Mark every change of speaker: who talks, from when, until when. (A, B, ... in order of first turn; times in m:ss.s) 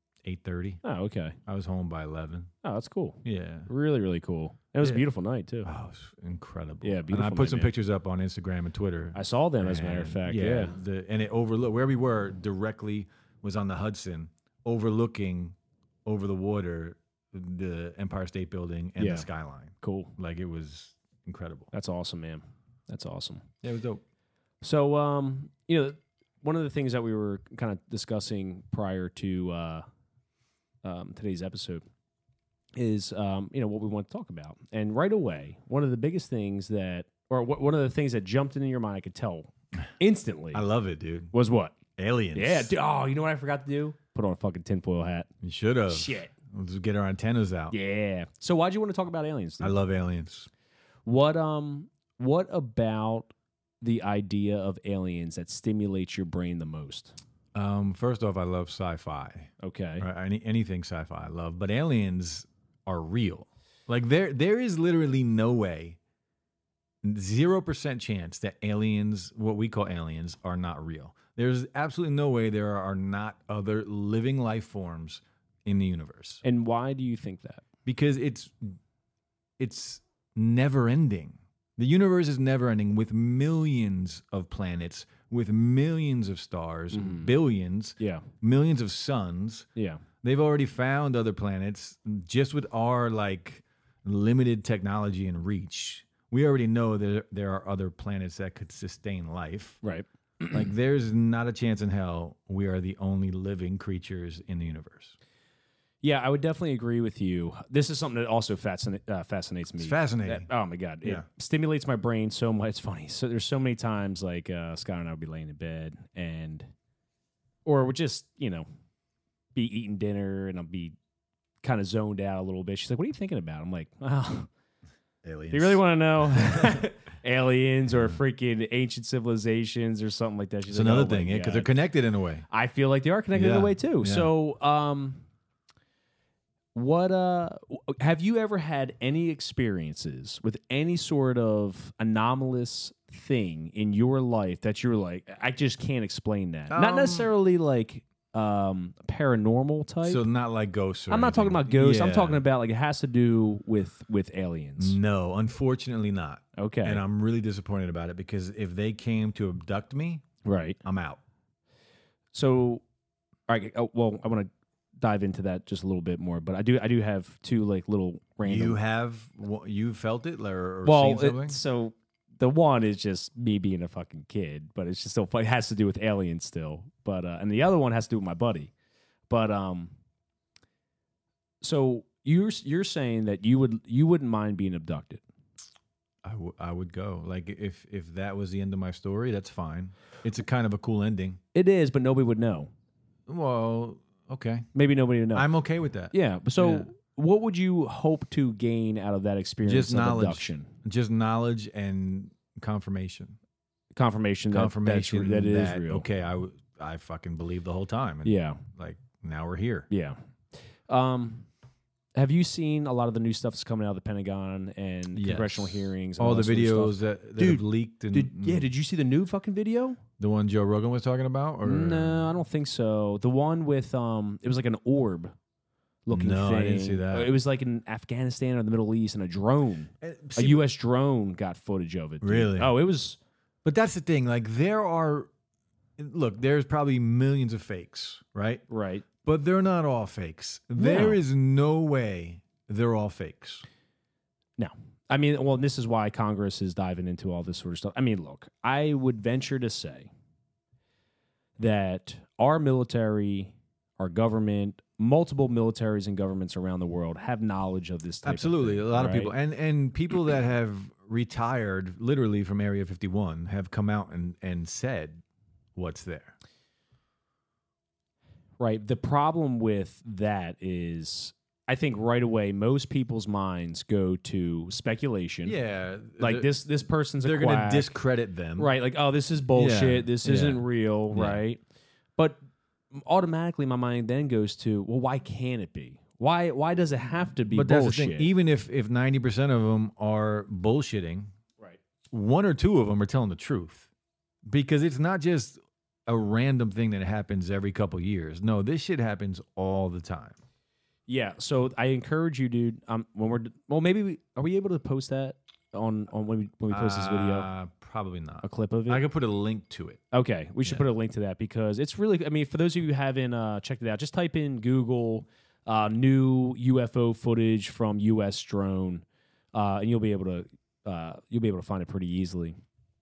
0:00.2-0:00.8 A
0:00.8-0:01.4 B
0:01.5-0:02.5 A
0:02.6-0:05.7 B
0:03.2-0:03.7 A
0:05.6-0:21.7 A
0:06.8-0:07.7 B
0:09.2-0:10.8 B
0:19.0-0:19.3 B
0:19.8-0:20.1 B
0:21.7-0:23.5 B
0:23.6-0:24.0 A
0:24.6-0:29.8 B
0:30.8-0:31.8 B
0:32.8-0:40.6 B
0:40.5-0:41.3 A
0:41.3-0:41.8 B
0:42.0-0:42.7 A
0:42.3-0:45.3 B
0:45.4-0:47.8 A
0:45.9-0:46.3 B
0:47.7-0:49.8 B
0:49.6-0:50.5 A
0:51.1-0:57.2 B
0:57.5-1:06.0 A
0:59.6-1:00.1 B
1:07.0-1:16.4 A
1:16.4-1:17.6 B
1:17.9-1:18.8 A
1:19.6-1:29.7 A
1:26.9-1:27.3 B
1:28.0-1:28.3 B
1:29.8-1:30.0 B
1:30.2-1:39.8 A
1:39.8-1:40.7 B
1:40.5-1:45.2 A
1:46.0-1:56.7 B
1:49.8-1:50.5 A
1:57.6-1:58.7 B
1:59.6-2:01.0 B
2:01.6-2:04.5 B
2:05.2-2:06.9 A
2:05.5-2:11.8 B
2:10.7-2:12.4 A
2:12.5-2:15.2 B
2:13.4-2:14.3 A
2:16.8-2:30.2 B
2:26.7-2:27.3 A
2:30.0-2:32.4 A
2:31.1-2:35.0 B
2:34.8-2:40.2 A
2:36.6-2:37.0 B
2:40.4-2:40.8 B
2:40.8-2:41.2 A
2:42.3-2:42.8 B
2:43.5-2:44.5 B
2:45.0-2:48.8 B
2:48.4-2:51.6 A
2:50.8-2:58.7 B
2:59.3-2:59.9 B
3:01.6-3:05.2 B
3:06.2-3:11.4 A
3:11.5-3:12.7 B
3:13.3-3:14.7 A
3:14.7-3:15.5 B
3:15.3-3:16.9 A
3:16.1-3:20.7 B
3:19.6-3:23.4 A
3:23.9-3:26.1 B
3:24.5-3:29.9 A
3:28.2-3:28.6 B
3:29.9-3:31.5 B
3:32.2-3:40.0 B
3:35.1-3:38.7 A
3:40.2-3:42.3 A
3:41.6-3:45.3 B
3:46.1-3:53.2 B
3:46.1-3:47.3 A
3:50.0-3:50.6 A
3:52.2-3:52.8 A
3:53.6-3:55.3 A
3:56.0-3:58.6 A
3:58.7-3:59.1 B
3:59.2-4:03.6 A
4:00.8-4:01.2 B
4:04.6-4:10.1 B
4:11.6-4:19.3 B
4:18.2-4:25.2 A
4:25.8-4:26.4 A
4:28.6-4:35.6 B
4:35.4-4:36.5 A
4:36.2-4:38.0 B
4:37.2-4:38.7 A
4:38.6-4:41.6 B
4:39.6-4:41.4 A
4:42.9-4:48.3 B
4:47.5-4:51.3 A
4:52.1-4:53.9 A
4:54.5-5:00.4 A
5:01.1-5:07.5 B
5:06.7-5:10.0 A
5:08.4-5:09.0 B
5:10.1-5:22.6 B